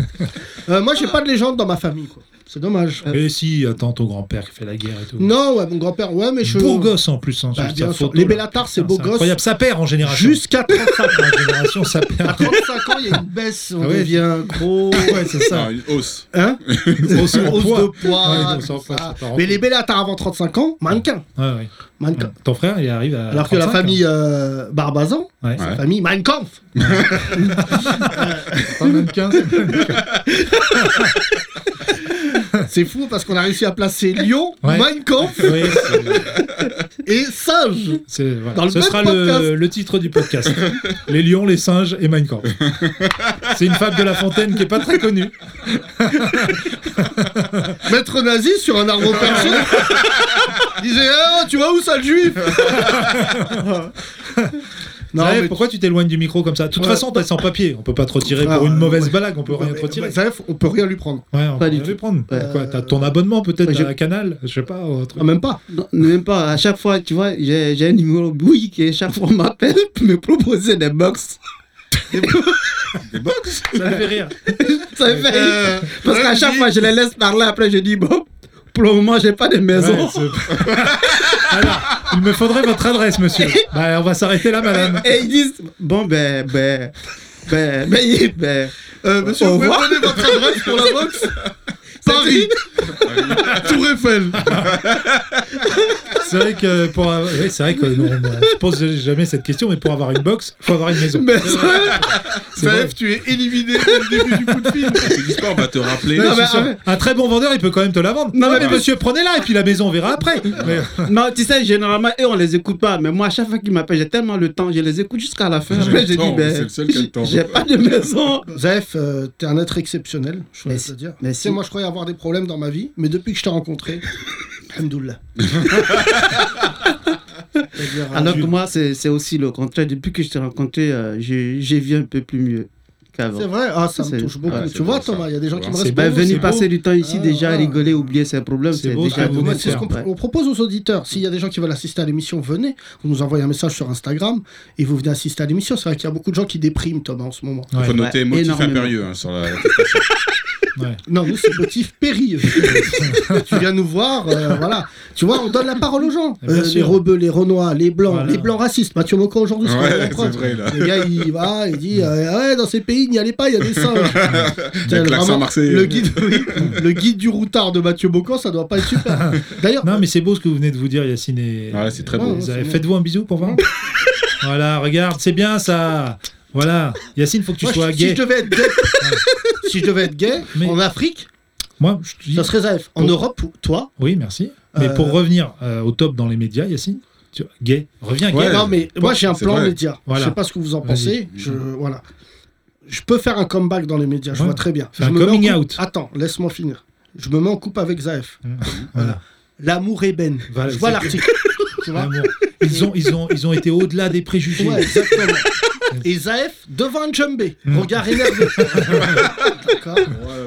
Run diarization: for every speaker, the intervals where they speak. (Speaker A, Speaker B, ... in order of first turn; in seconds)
Speaker A: 0.7-3.0, 5.2-7.0, 7.5-9.4, 10.0-11.6, 12.2-15.5, 16.3-21.2, 22.0-22.3, 23.3-29.0, 32.5-36.0, 37.0-38.0, 38.5-39.5, 47.8-50.0, 50.7-53.0, 55.1-55.6, 56.8-57.2, 58.4-61.2, 62.3-63.0, 65.2-65.6, 72.1-72.4, 75.3-76.9, 89.0-91.3, 92.0-94.5, 102.5-105.3, 106.2-106.7, 118.5-124.1, 124.7-125.2, 127.7-128.5, 133.3-138.1, 139.1-147.7, 151.1-164.2, 164.8-170.0, 172.1-172.8, 177.6-181.3, 182.3-183.9, 184.7-185.2, 188.4-192.0, 192.9-202.2, 204.6-205.5, 206.0-210.1
Speaker B: 3.1-5.3, 6.4-12.6, 13.8-14.2, 14.9-15.7, 17.0-19.6, 21.4-24.0, 25.4-25.7, 27.6-30.2, 30.8-31.1, 34.6-36.4, 38.1-42.6, 43.5-47.8, 53.0-53.5, 55.2-60.1, 61.3-65.3, 73.7-74.5, 79.7-85.1, 96.2-103.0, 106.2-111.1, 135.8-136.6, 138.7-139.9, 147.7-148.0, 150.8-151.0, 152.7-153.4, 156.4-157.0, 158.1-158.6, 164.3-164.6, 169.2-173.6, 174.4-178.2, 181.8-183.2, 184.0-188.9, 190.1-191.6, 194.3-195.8, 198.4-199.2, 200.5-201.2, 201.9-205.3, 207.7-209.1
Speaker C: 15.5-17.6, 26.8-27.4, 73.1-73.6, 93.0-93.8, 94.5-95.0, 105.0-106.5, 115.7-117.6, 134.5-135.8, 147.8-150.1, 159.6-161.2, 163.8-166.7, 171.7-172.4, 188.3-189.8
Speaker D: 53.6-53.9, 61.6-62.5, 63.6-63.9, 65.7-71.4, 72.1-72.6, 73.6-80.4, 83.4-83.7, 84.7-91.3, 92.0-92.6, 95.7-96.1, 101.0-102.3, 103.8-105.0, 106.2-106.8, 108.3-108.8, 111.0-118.5, 120.7-121.6, 128.1-134.7, 135.9-140.1, 147.9-148.9